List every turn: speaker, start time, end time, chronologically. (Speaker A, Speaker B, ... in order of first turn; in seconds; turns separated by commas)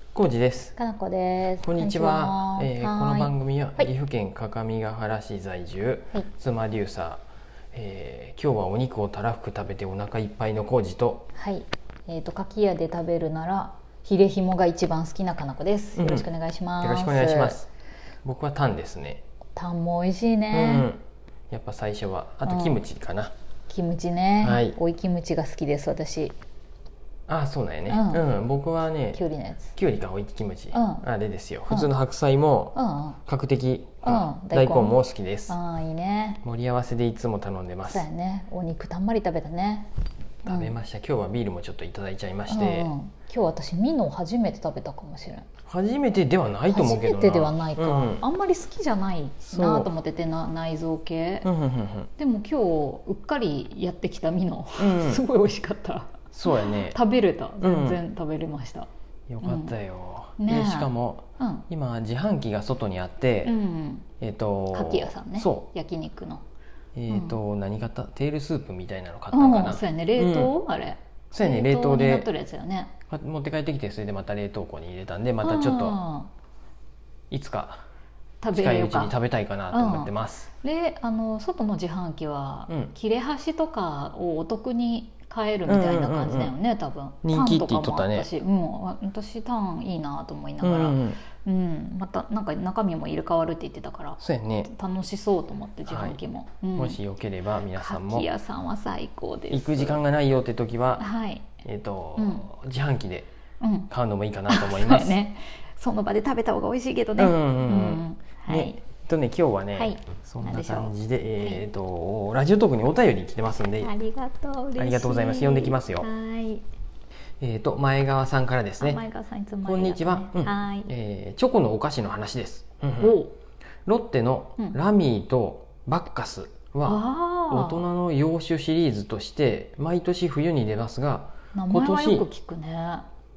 Speaker A: 0.1-0.8, Speaker B: 0.8-3.9, Speaker A: 1.6-7.2, Speaker A: 7.7-11.3, Speaker B: 11.3-17.7, Speaker A: 16.0-16.3, Speaker A: 16.8-17.7, Speaker A: 18.2-19.2, Speaker B: 19.6-20.9, Speaker A: 20.5-23.3, Speaker B: 22.4-22.8, Speaker B: 23.7-26.4, Speaker A: 24.4-24.8, Speaker A: 27.3-29.2, Speaker B: 27.9-28.2, Speaker B: 29.1-29.7, Speaker A: 29.7-35.6, Speaker B: 30.7-31.1, Speaker B: 32.8-33.2, Speaker B: 34.0-35.0, Speaker B: 35.5-36.4, Speaker A: 36.4-38.1, Speaker B: 37.9-39.9, Speaker A: 40.5-42.9, Speaker B: 40.5-40.7, Speaker B: 42.5-45.5, Speaker A: 45.7-48.2, Speaker B: 46.7-51.5, Speaker A: 49.5-49.9, Speaker A: 51.4-52.1, Speaker B: 52.2-58.9, Speaker A: 54.8-55.2, Speaker A: 56.3-57.0, Speaker A: 57.6-58.0, Speaker A: 59.3-63.5, Speaker B: 59.4-59.8, Speaker B: 60.4-61.7, Speaker B: 63.5-64.1, Speaker A: 64.2-65.7, Speaker B: 64.7-66.4, Speaker A: 67.0-70.5, Speaker B: 67.1-67.4, Speaker B: 69.3-72.9, Speaker A: 71.3-72.3, Speaker A: 73.1-76.0, Speaker B: 75.4-76.3, Speaker A: 77.3-77.8, Speaker B: 78.4-79.2, Speaker A: 78.5-80.5, Speaker B: 79.7-97.0, Speaker A: 85.7-86.5, Speaker A: 87.2-88.3, Speaker A: 90.6-91.2, Speaker A: 94.2-94.7, Speaker A: 95.9-96.2, Speaker A: 96.8-98.3, Speaker B: 97.8-100.0, Speaker A: 99.5-101.0, Speaker B: 101.0-101.5, Speaker A: 101.6-103.3, Speaker B: 102.2-102.5, Speaker B: 103.6-103.9, Speaker A: 103.9-105.2, Speaker B: 104.5-108.8, Speaker A: 107.2-113.9, Speaker B: 109.8-111.6, Speaker B: 113.8-116.6, Speaker A: 114.8-116.1, Speaker A: 117.4-119.0, Speaker B: 118.8-120.9, Speaker A: 119.6-123.2, Speaker B: 123.0-123.3, Speaker A: 123.9-132.3, Speaker B: 126.8-127.9, Speaker B: 131.5-133.1